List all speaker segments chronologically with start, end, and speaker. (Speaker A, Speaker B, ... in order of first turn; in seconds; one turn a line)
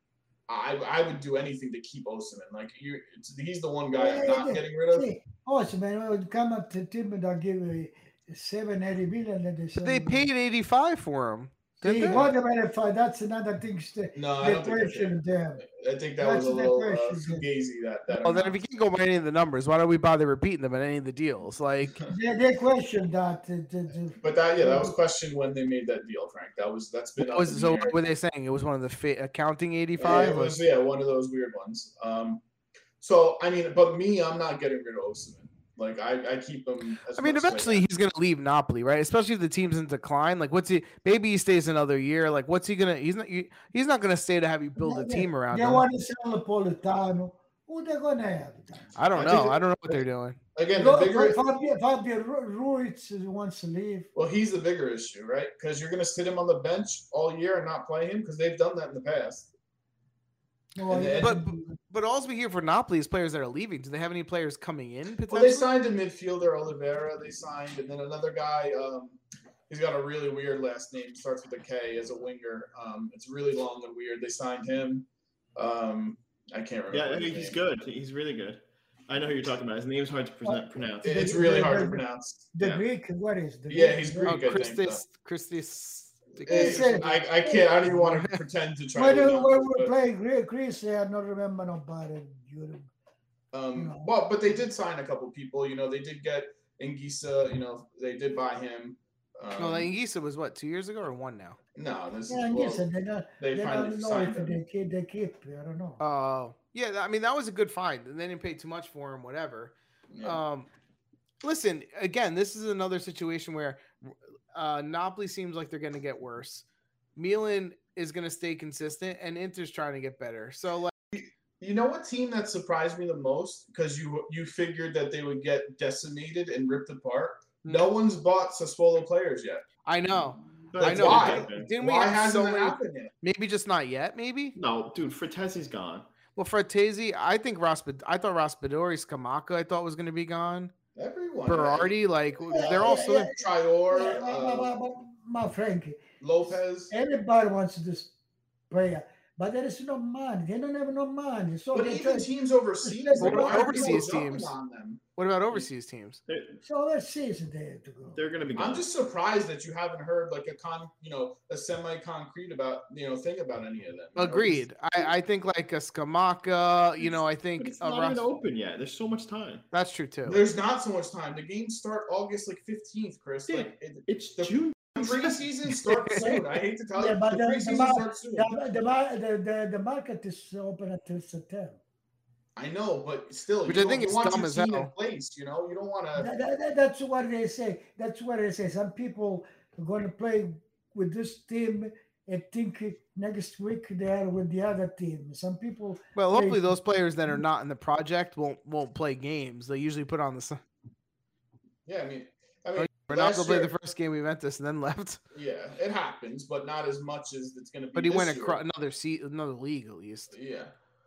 Speaker A: 0.5-5.1
Speaker B: 3.9-10.3
Speaker C: 9.8-12.2
Speaker B: 11.8-15.7
Speaker A: 14.2-18.6
Speaker B: 16.2-17.4
Speaker C: 18.1-22.0
Speaker B: 22.1-24.9
Speaker A: 24.2-28.0
Speaker C: 27.2-30.6
Speaker A: 30.0-32.4
Speaker A: 33.0-37.9
Speaker C: 37.2-45.8
Speaker B: 44.8-48.9
Speaker C: 49.0-50.4
Speaker A: 49.1-50.0
Speaker A: 50.5-51.4
Speaker B: 50.8-54.1
Speaker A: 54.1-59.5
Speaker B: 60.8-61.8
Speaker A: 60.9-61.4
Speaker C: 61.2-65.7
Speaker A: 65.3-77.6
Speaker D: 76.9-81.5
Speaker B: 80.5-84.4
Speaker A: 81.0-82.5
Speaker D: 82.6-82.8
Speaker A: 83.7-85.0
Speaker C: 84.3-87.2
Speaker A: 86.4-89.9
Speaker B: 86.5-88.0
Speaker B: 89.0-92.9
Speaker A: 93.5-99.9
Speaker B: 93.8-94.1
Speaker C: 99.6-101.6
Speaker A: 101.8-102.9
Speaker B: 102.3-106.0
Speaker A: 103.4-104.6
Speaker C: 106.0-110.7
Speaker A: 110.1-110.4
Speaker C: 111.4-116.6
Speaker C: 117.2-120.9
Speaker A: 121.1-129.6
Speaker C: 129.9-134.6
Speaker D: 130.7-131.7
Speaker A: 130.8-133.1
Speaker D: 134.6-136.1
Speaker C: 136.4-140.7
Speaker A: 140.9-141.9
Speaker C: 141.5-143.3
Speaker B: 142.5-143.4
Speaker A: 142.5-144.7
Speaker B: 143.9-146.0
Speaker A: 146.2-146.9
Speaker B: 146.9-148.1
Speaker B: 148.7-152.3
Speaker A: 151.7-155.6
Speaker B: 152.8-154.0
Speaker C: 153.2-154.5
Speaker C: 155.2-156.2
Speaker D: 156.3-156.6
Speaker B: 156.6-158.2
Speaker D: 158.2-158.9
Speaker A: 158.6-165.1
Speaker C: 164.2-168.2
Speaker D: 167.0-169.7
Speaker C: 169.7-170.4
Speaker A: 170.2-178.6
Speaker D: 173.5-175.4
Speaker C: 175.9-176.4
Speaker B: 177.0-181.8
Speaker A: 182.6-186.3
Speaker C: 183.7-184.9
Speaker B: 186.2-196.8
Speaker C: 196.2-200.6
Speaker A: 201.8-203.7
Speaker C: 202.8-205.2
Speaker A: 205.3-208.6
Speaker C: 207.9-210.3
Speaker A: 210.3-210.7